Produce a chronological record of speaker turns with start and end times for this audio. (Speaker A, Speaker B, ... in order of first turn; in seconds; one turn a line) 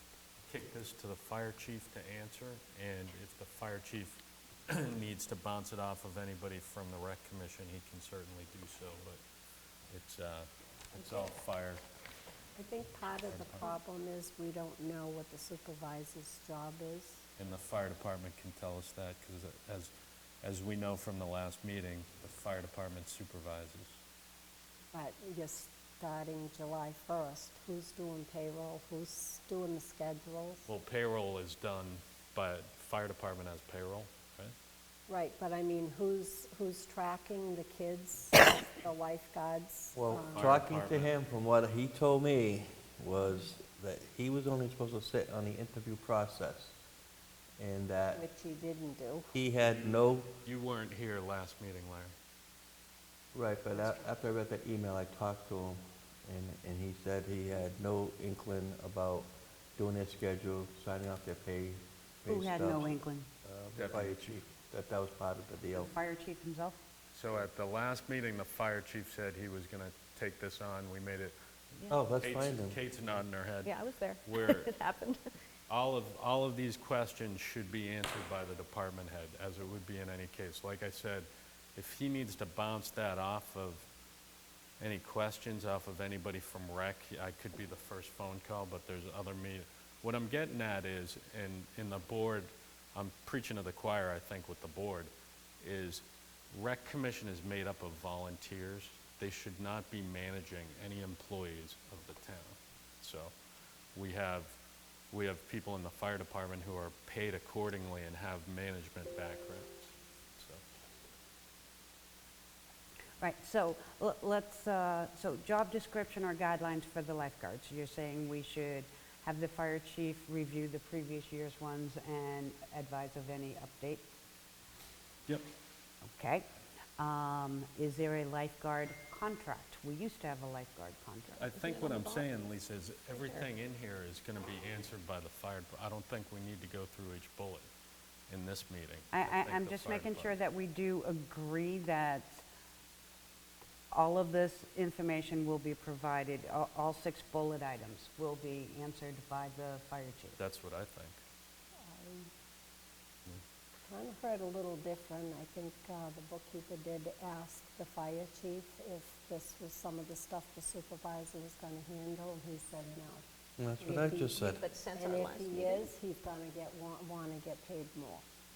Speaker A: 0.4-9.2
Speaker A: 9.9-11.8
Speaker B: 12.6-17.2
Speaker A: 13.3-13.8
Speaker A: 17.4-19.9
Speaker A: 20.4-24.0
Speaker B: 24.9-30.7
Speaker A: 30.7-34.5
Speaker B: 35.1-40.6
Speaker C: 40.0-46.7
Speaker A: 40.3-41.1
Speaker C: 47.6-48.2
Speaker B: 48.1-49.3
Speaker C: 49.3-50.3
Speaker A: 50.4-52.1
Speaker C: 53.3-63.0
Speaker D: 62.3-63.3
Speaker C: 63.5-65.9
Speaker A: 63.7-64.3
Speaker D: 65.8-66.8
Speaker A: 67.1-71.3
Speaker C: 71.9-72.8
Speaker A: 72.2-74.8
Speaker E: 73.6-75.3
Speaker A: 75.7-83.9
Speaker A: 84.8-103.3
Speaker A: 104.0-104.6
Speaker A: 105.1-110.6
Speaker D: 113.2-124.0
Speaker D: 126.0-131.4
Speaker A: 131.4-137.7
Speaker E: 131.4-132.3
Speaker E: 133.1-133.4
Speaker A: 138.3-140.3
Speaker D: 139.1-142.4
Speaker D: 143.9-150.4
Speaker A: 150.4-151.2
Speaker B: 151.8-152.3
Speaker B: 153.8-163.2
Speaker C: 163.6-164.6
Speaker B: 163.8-168.2
Speaker E: 164.6-165.9